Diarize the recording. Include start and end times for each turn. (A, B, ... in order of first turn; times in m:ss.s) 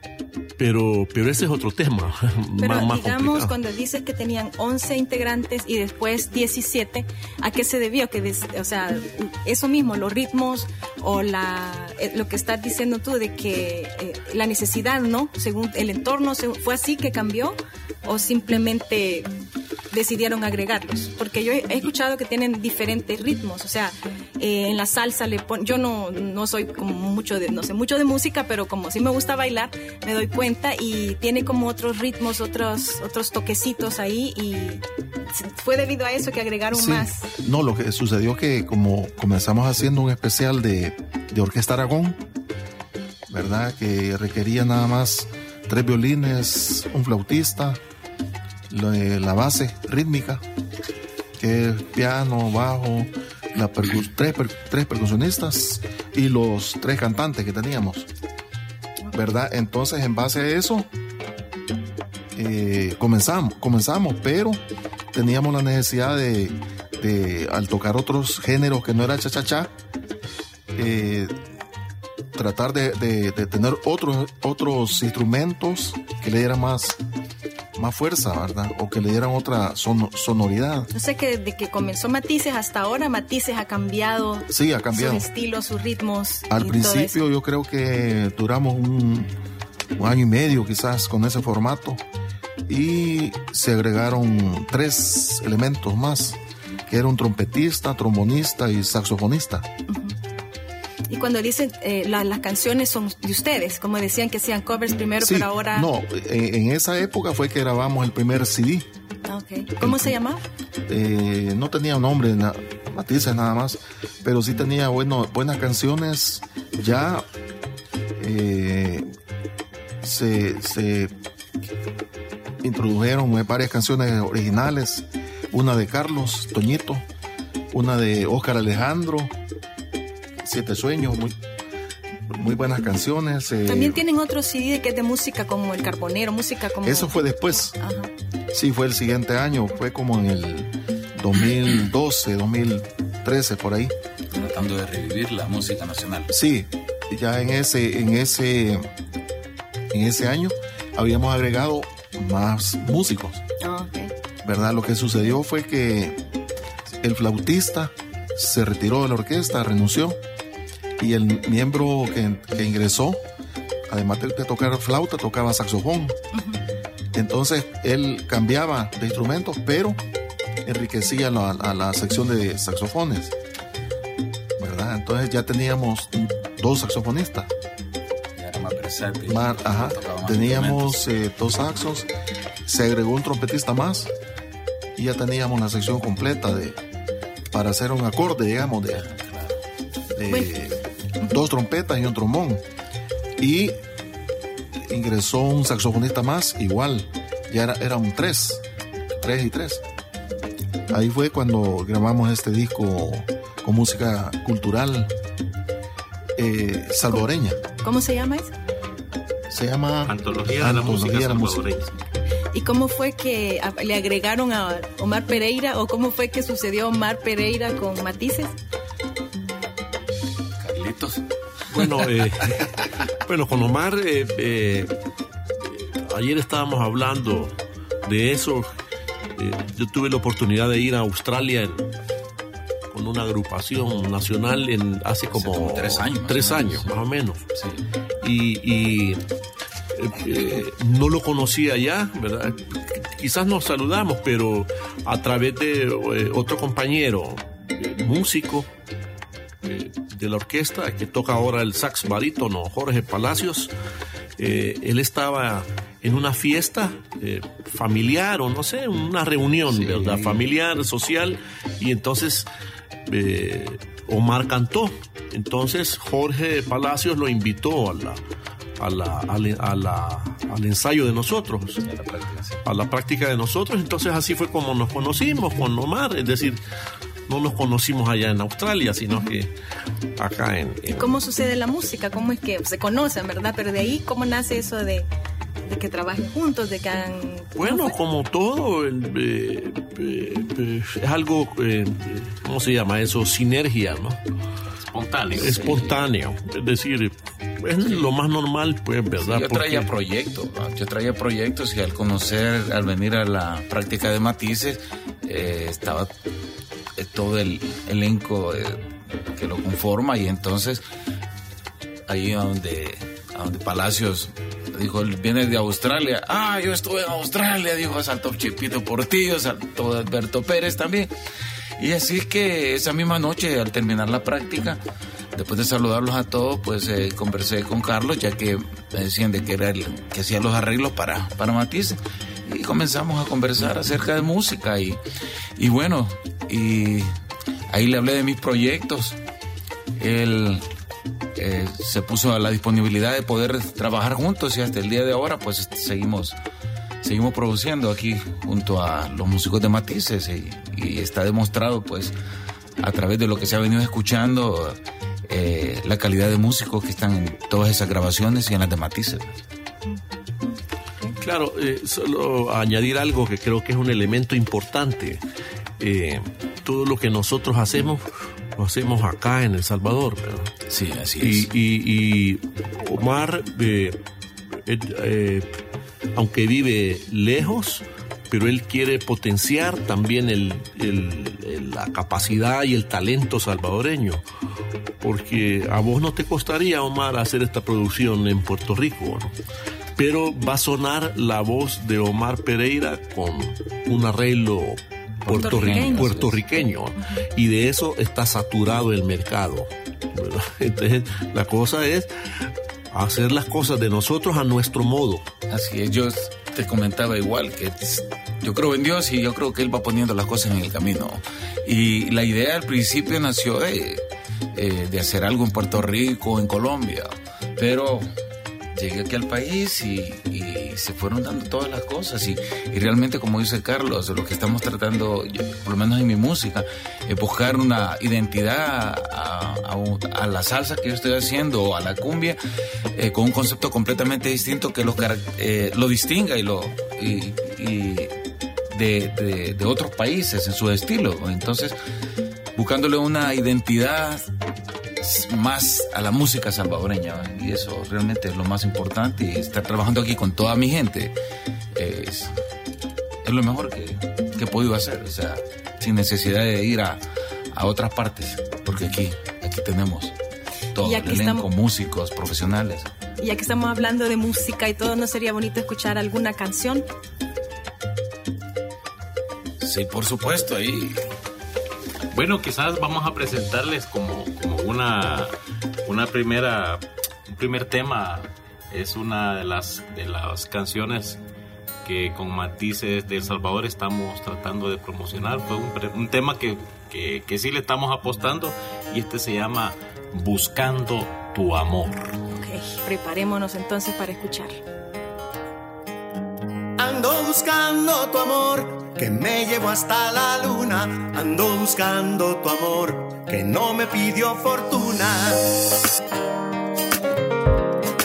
0:00.6-0:03.5 A
0:02.6-0:19.3 B
0:19.9-0:37.3 B
0:36.7-0:42.2 C
0:43.3-0:47.8 C
0:48.7-0:50.4 C
0:51.4-0:58.1 C
0:59.1-1:00.9 C
1:02.4-1:04.6 C
1:05.1-1:09.7 C
1:10.8-1:11.3 C
1:12.3-1:17.0 C
1:17.8-1:20.9 C
1:20.9-1:27.2 B
1:24.5-1:25.3 C
1:26.5-1:29.3 C
1:30.0-1:32.0 C
1:32.7-1:39.7 C
1:39.9-1:40.2 B
1:41.1-1:45.9 B
1:45.2-1:48.9 C
1:49.2-1:50.4 B
1:49.8-1:50.2 C
1:50.9-1:57.2 C
1:58.2-1:59.1 C
2:00.0-2:01.1 C
2:02.6-2:07.0 C
2:07.7-2:09.3 C
2:10.4-2:11.4 C
2:12.3-2:14.0 C
2:13.7-2:17.2 B
2:16.8-2:17.8 C
2:17.8-2:18.1 B
2:18.5-2:23.9 C
2:24.3-2:26.3 D
2:26.3-2:28.9 C
2:29.9-2:33.4 C
2:33.6-2:34.1 B
2:34.4-2:36.2 C
2:37.0-2:40.2 C
2:41.0-2:43.2 C
2:43.9-2:46.2 C
2:46.3-2:46.6 B
2:47.1-2:50.0 C
2:50.6-2:53.3 C
2:54.6-2:57.5 C
2:58.4-3:01.1 D
2:59.3-3:02.1 C
3:02.6-3:04.1 C
3:05.0-3:06.8 C
3:07.5-3:09.0 C
3:08.9-3:09.6 D
3:10.1-3:12.6 C
3:13.4-3:13.8 C
3:14.8-3:18.6 C
3:19.2-3:19.8 C
3:20.9-3:25.1 C
3:26.4-3:27.6 C
3:27.1-3:28.5 B
3:29.5-3:31.6 C
3:30.0-3:32.0 E
3:32.5-3:38.5 B
3:40.6-3:41.2 D
3:41.7-3:42.7 A
3:41.8-3:42.0 D
3:43.3-3:44.9 A
3:45.6-3:48.7 A
3:49.4-3:51.9 A
3:52.9-3:57.4 A
3:55.3-3:56.9 D
3:57.6-3:57.8 D
3:58.2-3:59.2 A
4:00.0-4:08.7 A
4:09.6-4:13.7 A
4:14.4-4:22.5 A
4:19.7-4:20.4 D
4:23.1-4:28.2 A
4:28.8-4:31.8 A
4:31.8-4:32.6 D
4:32.6-4:36.6 A
4:37.3-4:39.5 A
4:40.2-4:41.2 A
4:40.8-4:45.1 B
4:45.7-4:47.9 B
4:47.6-4:54.2 A
4:54.9-4:55.6 E
4:55.3-4:59.9 A
4:55.3-4:56.0 D
4:59.2-5:06.1 D
5:07.0-5:10.8 D
5:12.1-5:21.1 D
5:21.8-5:24.8 D
5:25.3-5:35.0 D
5:35.6-5:37.1 D
5:37.7-5:39.2 D
5:40.0-5:40.7 D
5:41.4-5:46.4 D
5:47.0-5:52.2 D
5:52.8-5:59.3 D
5:59.9-6:01.1 B
6:01.2-6:05.2 A
6:05.8-6:08.0 A
6:08.6-6:10.5 A
6:10.7-6:11.5 D
6:11.2-6:14.0 A
6:14.5-6:15.5 A
6:16.2-6:24.2 A
6:25.0-6:29.3 A
6:30.0-6:45.2 A
6:35.2-6:36.5 D
6:35.4-6:36.1 B
6:45.5-6:54.0 D
6:54.5-6:58.1 D
6:58.8-7:12.4 D
7:12.9-7:18.1 D
7:18.7-7:21.8 D
7:22.6-7:24.3 D
7:25.0-7:31.2 D
7:31.8-7:32.3 D
7:33.2-7:37.0 D
7:37.5-7:40.1 D
7:40.8-7:42.9 D
7:40.8-7:41.5 B
7:43.2-7:46.9 B
7:49.6-7:51.1 D
7:52.1-7:55.4 E
7:55.9-8:01.2 E
8:01.8-8:12.2 E
8:12.3-8:14.6 B
8:16.8-8:25.5 F